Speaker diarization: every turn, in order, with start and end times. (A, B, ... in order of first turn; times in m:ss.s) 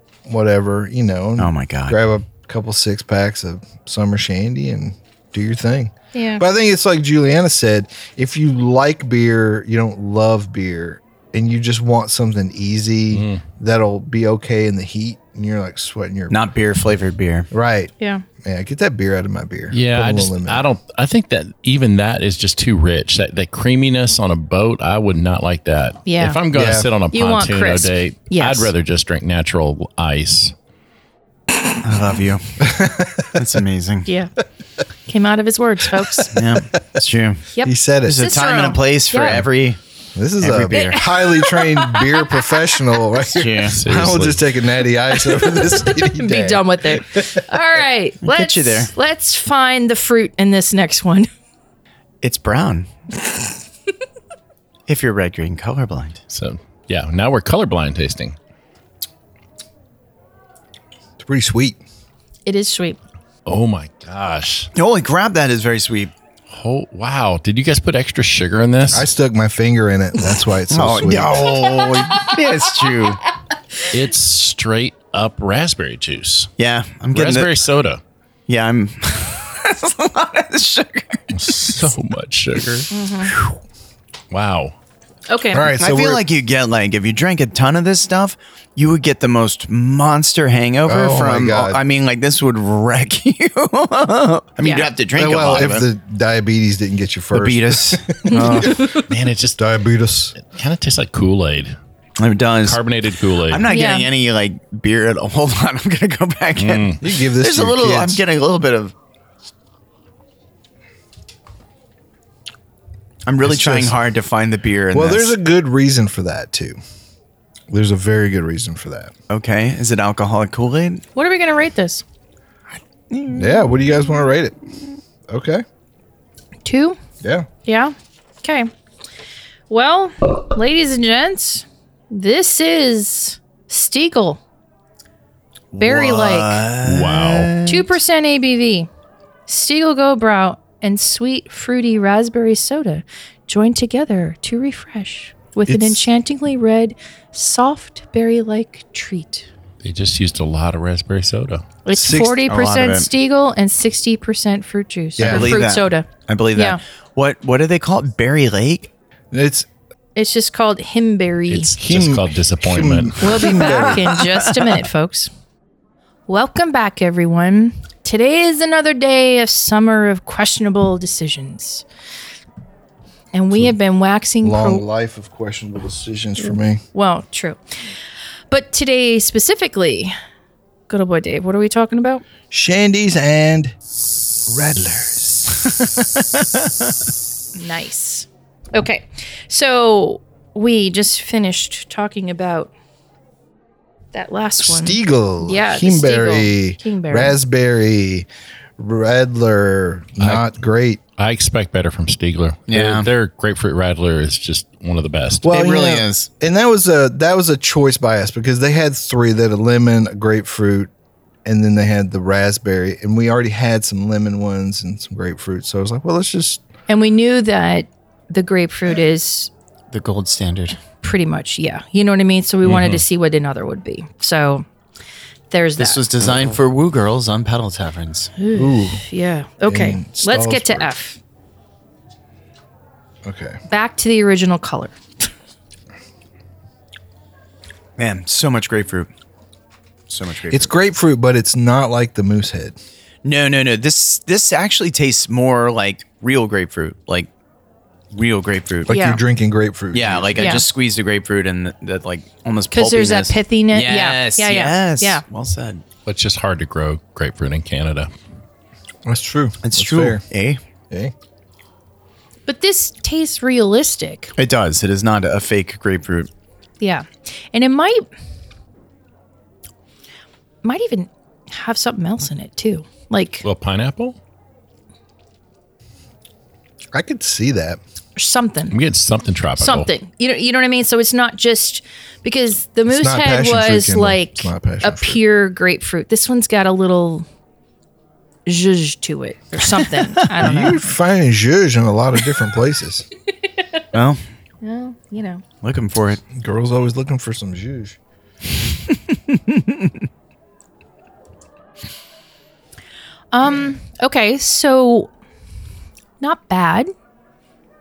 0:00.3-0:16.4 A
0:01.4-0:02.0 B
0:06.1-0:06.4 C
0:13.1-0:13.4 D
0:16.3-0:17.5 B
0:17.5-0:20.7 A
0:19.7-0:30.5 D
0:26.1-0:26.4 C
0:26.5-0:26.9 A
0:27.1-0:28.7 C
0:31.8-0:32.8 B
0:32.6-0:33.6 A
0:33.4-0:34.1 B
0:34.1-0:34.3 C
0:35.1-0:36.3 C
0:36.0-0:36.4 A
0:36.3-0:37.5 B
0:37.6-0:39.4 C
0:37.6-0:38.4 A
0:38.0-0:39.8 B
0:40.2-0:47.4 A
0:40.4-0:41.1 B
0:40.7-0:42.4 C
0:43.3-0:43.8 B
0:43.7-0:44.4 D
0:45.1-0:51.3 C
0:48.2-0:48.9 B
0:52.2-0:52.9 B
0:54.9-0:56.2 B
0:56.3-0:58.4 D
1:01.2-1:01.8 A
1:02.5-1:03.0 C
1:03.5-1:04.7 D
1:04.8-1:06.1 B
1:06.5-1:09.1 D
1:08.9-1:11.7 A
1:10.7-1:13.2 B
1:13.9-1:16.5 D
1:16.6-1:17.5 B
1:17.1-1:18.0 D
1:18.5-1:21.7 B
1:21.3-1:22.9 D
1:22.9-1:23.3 C
1:24.3-1:24.8 D
1:25.3-1:25.7 C
1:25.5-1:26.2 A
1:25.8-1:35.9 B
1:30.9-1:31.8 A
1:34.6-1:34.9 C
1:35.1-1:39.0 A
1:37.3-1:38.7 B
1:38.3-1:39.1 C
1:38.9-1:39.6 D
1:39.6-1:40.4 A
1:40.4-1:41.8 D
1:42.2-1:42.8 B
1:42.6-1:43.7 D
1:43.5-1:48.9 B
1:43.7-1:44.1 C
1:46.6-1:47.0 D
1:47.0-1:48.2 A
1:53.3-1:55.4 B
1:53.4-1:54.0 A
1:54.9-1:56.8 A
1:57.7-1:59.1 A
1:59.3-2:01.0 B
2:01.2-2:02.0 C
2:02.7-2:03.8 B
2:03.3-2:04.6 A
2:05.3-2:05.6 A
2:06.6-2:07.0 C
2:07.2-2:07.5 A
2:07.6-2:08.7 C
2:09.7-2:14.4 C
2:15.7-2:17.9 B
2:15.8-2:16.6 C
2:16.8-2:17.5 D
2:17.6-2:18.9 C
2:19.5-2:29.5 C
2:25.7-2:26.1 A
2:29.8-2:31.6 D
2:31.8-2:36.8 C
2:31.9-2:32.4 A
2:32.5-2:33.1 B
2:35.2-2:35.6 A
2:35.2-2:38.9 B
2:39.3-2:39.7 A
2:40.2-2:41.7 C
2:41.5-2:43.2 D
2:41.8-2:44.2 A
2:43.2-2:45.3 C
2:43.5-2:44.8 B
2:46.3-2:51.8 C
2:53.3-2:54.8 C
2:54.4-2:56.8 A
2:56.4-2:57.6 C
2:58.5-3:00.1 C
3:00.9-3:02.2 C
3:02.5-3:03.8 A
3:04.5-3:05.9 A
3:05.7-3:06.7 B
3:07.6-3:12.7 C
3:14.1-3:17.4 C
3:14.6-3:18.3 A
3:18.8-3:21.0 A
3:20.2-3:20.5 D
3:21.2-3:25.5 D
3:22.7-3:23.1 B
3:25.4-3:30.9 A
3:25.5-3:26.3 B
3:31.4-3:36.6 A
3:36.9-3:39.5 C
3:39.9-3:40.8 B
3:41.0-3:44.7 C
3:42.6-3:43.0 D
3:45.5-3:46.0 C
3:45.8-3:48.3 B
3:48.4-3:51.2 C
3:48.5-3:49.0 A
3:49.6-3:50.9 A
3:53.2-3:53.6 A
3:53.7-3:55.3 C
3:58.0-3:59.1 B
4:00.1-4:00.7 B
4:00.5-4:02.8 A
4:03.2-4:07.3 B
4:08.1-4:09.0 B
4:08.9-4:10.6 A
4:08.9-4:09.2 C
4:09.9-4:15.8 B
4:10.4-4:10.6 C
4:12.7-4:15.2 C
4:16.1-4:18.1 D
4:19.1-4:20.2 A
4:19.6-4:20.6 B
4:22.5-4:24.3 C
4:24.4-4:26.3 B
4:26.8-4:28.0 C
4:30.6-4:33.4 C
4:33.4-4:34.2 D
4:36.9-4:37.8 A
4:38.2-4:38.8 C
4:38.7-4:39.9 D
4:39.6-4:47.2 C
4:42.9-4:45.2 A
4:48.5-4:50.8 C
4:50.4-4:53.1 A
4:53.9-4:54.2 B
4:54.6-4:55.4 C
4:55.6-4:56.2 B
4:56.3-4:58.0 A
4:58.9-4:59.9 B
5:03.3-5:05.1 C
5:06.2-5:06.9 C